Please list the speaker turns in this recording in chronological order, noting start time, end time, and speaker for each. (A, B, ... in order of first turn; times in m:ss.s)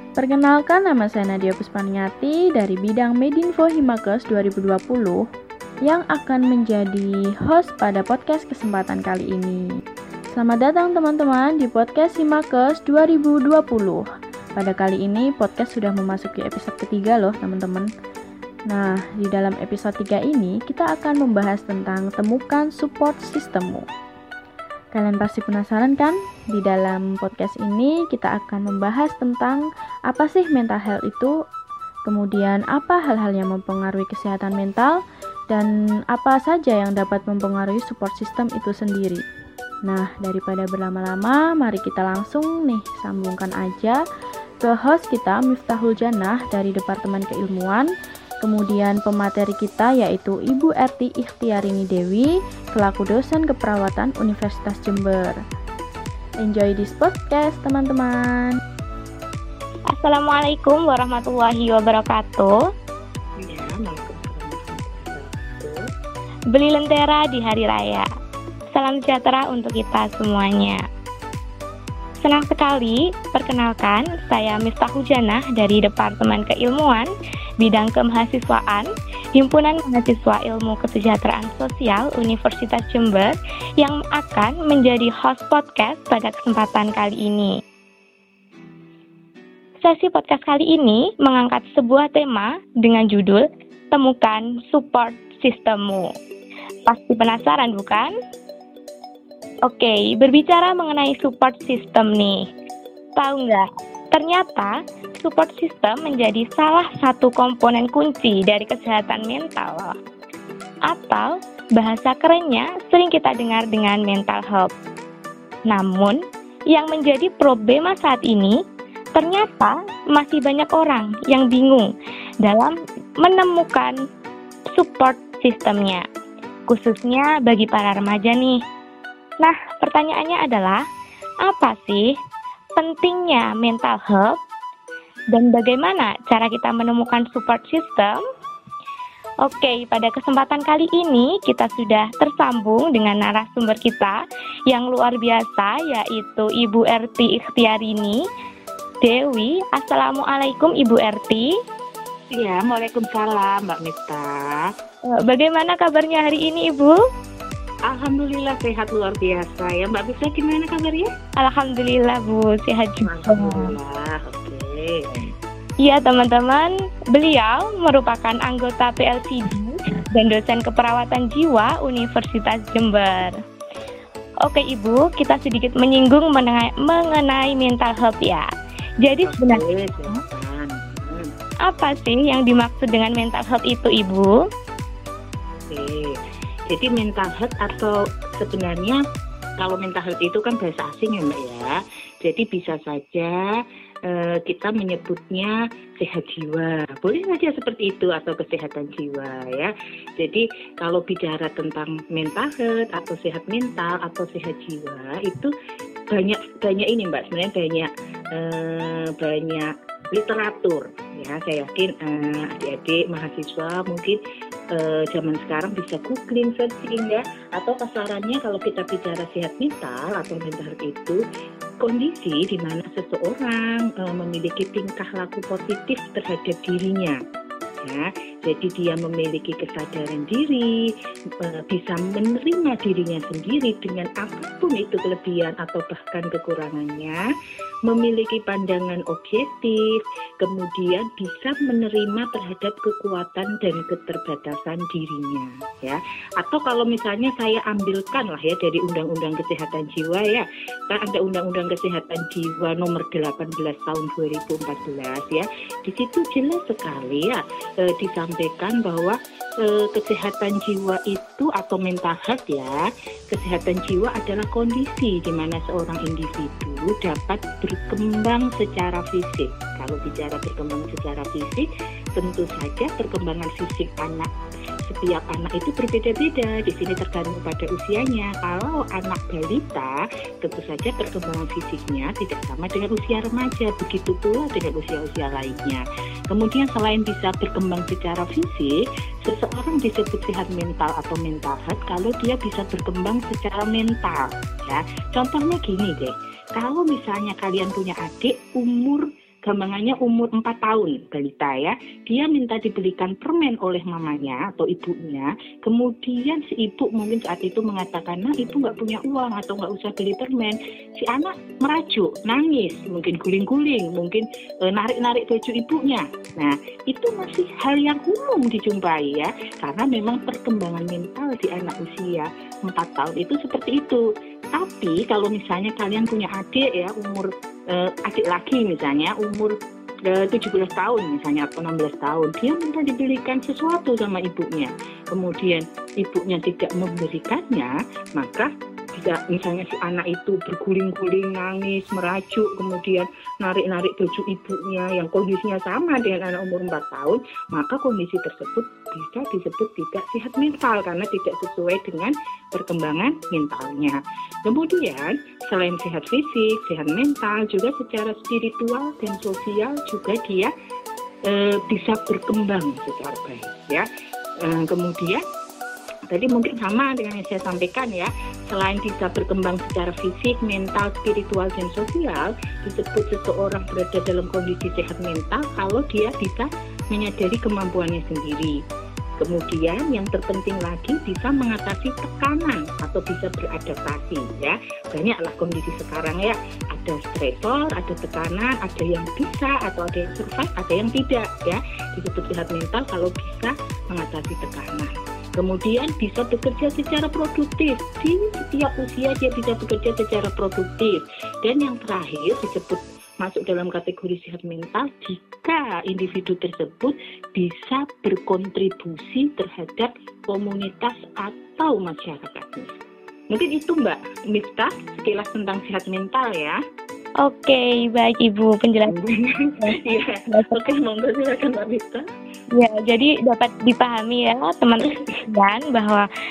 0:00.2-0:05.2 A
0:05.8-0:09.7 A
0:10.3-0:17.9 A
0:18.7-0:23.9 A
0:25.0-0:31.4 A
0:32.0-0:39.2 A
0:39.8-0:44.0 A
0:44.6-0:47.9 A
0:48.4-0:55.4 A
0:56.4-0:58.6 A
0:59.9-1:02.6 B
1:03.4-1:05.8 C
1:06.5-1:08.1 B
1:08.7-1:10.8 B
1:12.2-1:27.6 B
1:29.8-1:36.1 B
1:36.9-1:38.1 B
1:39.6-1:42.5 B
1:43.2-1:50.0 B
1:50.9-1:54.7 B
1:55.7-1:56.2 B
1:56.7-1:58.6 B
1:59.1-2:01.9 B
2:02.4-2:04.0 B
2:04.7-2:06.0 B
2:06.7-2:08.6 B
2:09.4-2:10.8 B
2:11.4-2:12.1 B
2:12.8-2:14.4 B
2:15.3-2:18.2 B
2:19.4-2:28.2 B
2:29.0-2:31.5 B
2:32.3-2:34.7 C
2:35.1-2:36.9 B
2:37.9-2:41.1 C
2:41.4-2:43.8 B
2:43.0-2:45.3 C
2:45.8-2:53.4 B
2:54.4-2:58.5 B
2:59.0-3:00.2 B
2:59.2-3:01.3 C
3:01.6-3:04.4 B
3:05.7-3:09.0 C
3:09.6-3:13.4 C
3:14.0-3:25.5 C
3:26.1-3:34.2 C
3:34.7-3:41.2 C
3:41.8-3:47.2 C
3:47.8-3:57.2 C
3:57.9-4:34.3 C
4:34.8-6:00.5 C
6:01.2-6:03.8 C
6:04.4-6:05.2 C
6:06.1-6:18.6 C
6:19.2-6:52.8 C
6:53.3-6:56.6 C
6:57.2-6:59.0 B
6:58.8-7:02.0 C
6:59.6-7:00.7 B
7:02.5-7:06.1 B